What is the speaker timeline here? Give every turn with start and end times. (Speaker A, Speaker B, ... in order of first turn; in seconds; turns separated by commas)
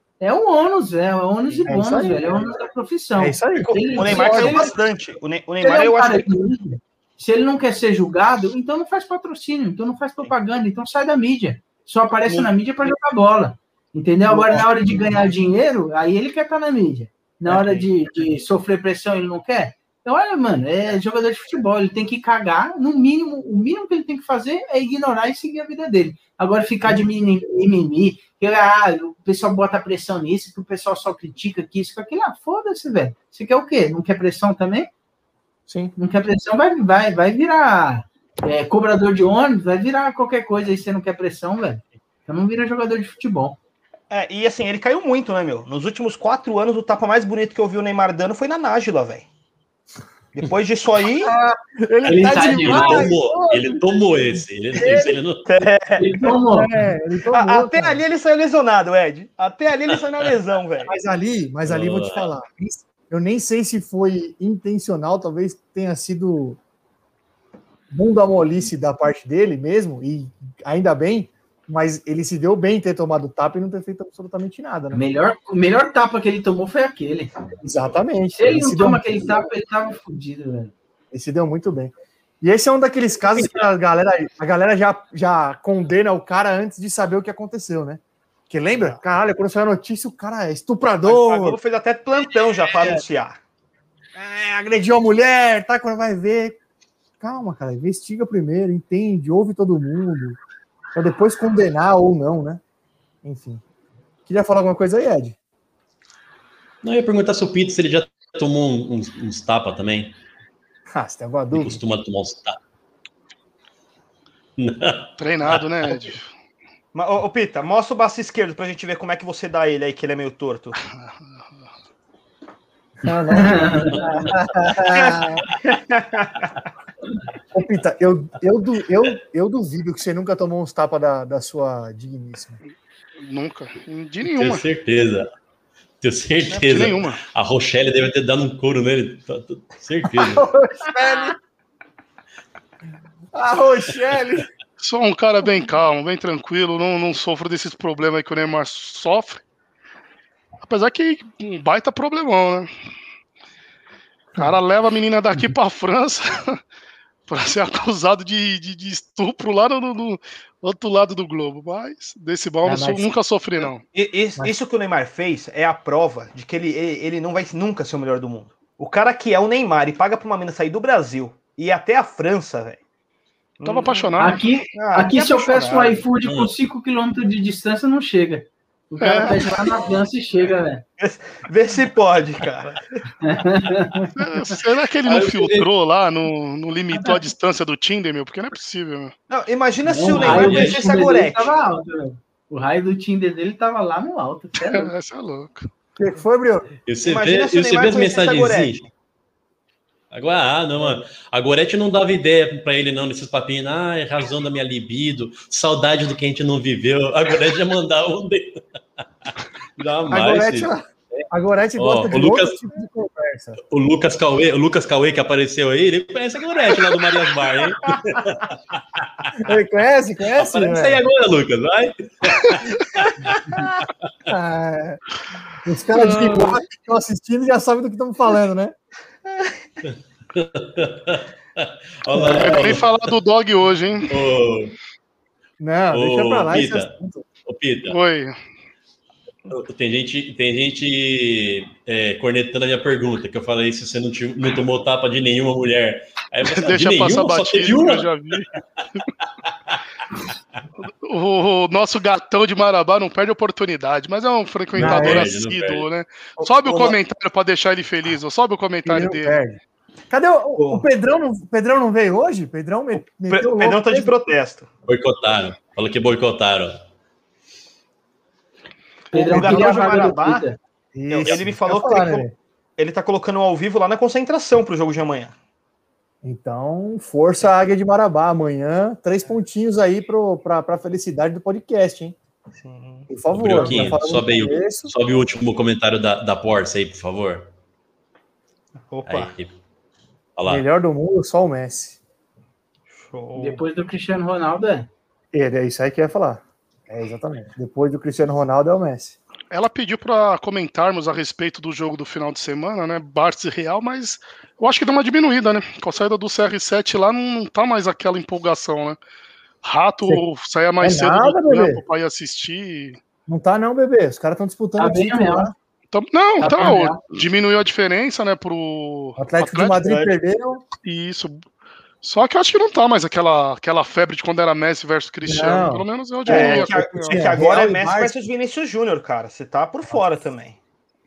Speaker A: 0.2-4.8, Speaker B: 1.7-2.2, Speaker B: 3.2-4.7, Speaker C: 3.8-6.3, Speaker A: 5.6-34.9, Speaker C: 14.3-14.7, Speaker C: 17.5-17.9, Speaker B: 35.7-35.9, Speaker A: 36.0-43.6, Speaker C: 44.1-49.3, Speaker C: 50.4-51.3, Speaker B: 51.2-54.0, Speaker D: 52.0-55.5, Speaker A: 52.2-53.1, Speaker B: 54.7-55.2, Speaker C: 55.5-56.3, Speaker A: 56.0-56.7, Speaker B: 56.3-58.0, Speaker C: 57.3-60.9, Speaker B: 60.9-66.6, Speaker D: 61.6-62.2, Speaker B: 67.9-75.0, Speaker A: 74.9-77.3, Speaker B: 77.6-79.4, Speaker A: 78.4-80.7, Speaker B: 81.1-91.6, Speaker C: 88.7-89.0, Speaker C: 91.1-93.4, Speaker B: 94.2-96.6, Speaker B: 97.2-100.4, Speaker B: 101.0-102.6, Speaker B: 103.2-103.6, Speaker B: 104.3-105.4, Speaker D: 106.8-110.2, Speaker B: 110.9-111.8, Speaker D: 111.5-112.6, Speaker D: 114.6-115.9, Speaker E: 115.2-116.3, Speaker C: 116.9-120.8, Speaker B: 123.0-125.5, Speaker A: 123.1-124.1, Speaker C: 124.9-126.5, Speaker B: 127.5-132.6, Speaker E: 133.2-134.6, Speaker D: 134.2-135.3, Speaker D: 136.0-140.5, Speaker C: 136.5-136.8, Speaker E: 136.7-137.2, Speaker B: 140.2-141.4, Speaker B: 143.3-144.5, Speaker E: 144.8-149.4, Speaker E: 150.6-152.7, Speaker E: 154.4-156.6, Speaker E: 157.3-163.9, Speaker B: 162.7-163.1, Speaker C: 163.9-172.8, Speaker C: 173.6-174.2, Speaker E: 173.7-174.4, Speaker A: 174.2-180.8, Speaker C: 174.7-176.0, Speaker D: 176.2-176.5, Speaker E: 179.0-179.5, Speaker C: 181.0-183.0, Speaker A: 183.2-184.1, Speaker E: 184.2-189.1, Speaker D: 185.1-185.7, Speaker A: 186.9-187.2, Speaker C: 189.3-191.5, Speaker A: 189.9-194.9, Speaker D: 190.1-190.8, Speaker E: 194.6-195.7, Speaker B: 196.0-196.7, Speaker D: 196.9-198.9, Speaker C: 197.0-198.8, Speaker D: 200.1-208.6, Speaker D: 209.8-211.3, Speaker B: 210.1-213.6, Speaker D: 211.8-212.6, Speaker D: 213.7-219.4, Speaker B: 219.4-221.0, Speaker D: 220.3-223.9, Speaker B: 224.3-225.0, Speaker B: 225.7-228.8, Speaker C: 229.2-229.6, Speaker D: 230.3-232.8, Speaker B: 232.1-232.7, Speaker E: 232.4-234.2, Speaker D: 234.1-234.7, Speaker B: 235.6-237.2, Speaker D: 235.9-236.9, Speaker D: 237.5-238.0, Speaker E: 237.9-238.4, Speaker D: 239.5-248.6, Speaker E: 246.5-248.5, Speaker E: 250.8-259.4, Speaker D: 254.7-255.9, Speaker B: 254.8-255.3, Speaker B: 258.9-259.6, Speaker B: 260.1-264.2, Speaker C: 260.6-260.8, Speaker C: 263.3-264.7, Speaker D: 264.9-266.8, Speaker C: 269.1-270.5, Speaker A: 269.1-270.6, Speaker B: 269.3-270.1, Speaker B: 270.9-272.4, Speaker C: 271.1-272.2, Speaker C: 272.8-275.3, Speaker B: 276.2-282.2, Speaker C: 282.6-283.1, Speaker B: 283.1-284.9, Speaker D: 283.3-287.5, Speaker C: 288.8-289.3, Speaker D: 289.1-289.5, Speaker D: 290.4-290.6, Speaker B: 290.5-292.0, Speaker C: 293.0-293.6, Speaker A: 293.4-294.9, Speaker B: 295.3-299.2, Speaker E: 299.5-309.0, Speaker E: 309.6-313.0, Speaker B: 310.8-311.8, Speaker B: 313.3-315.5, Speaker A: 314.8-315.5, Speaker E: 315.9-319.8, Speaker B: 316.4-317.0, Speaker A: 316.4-317.0, Speaker B: 319.2-320.7, Speaker C: 319.8-320.1, Speaker E: 320.8-321.4, Speaker E: 322.0-327.3, Speaker B: 325.2-328.2, Speaker C: 326.3-330.6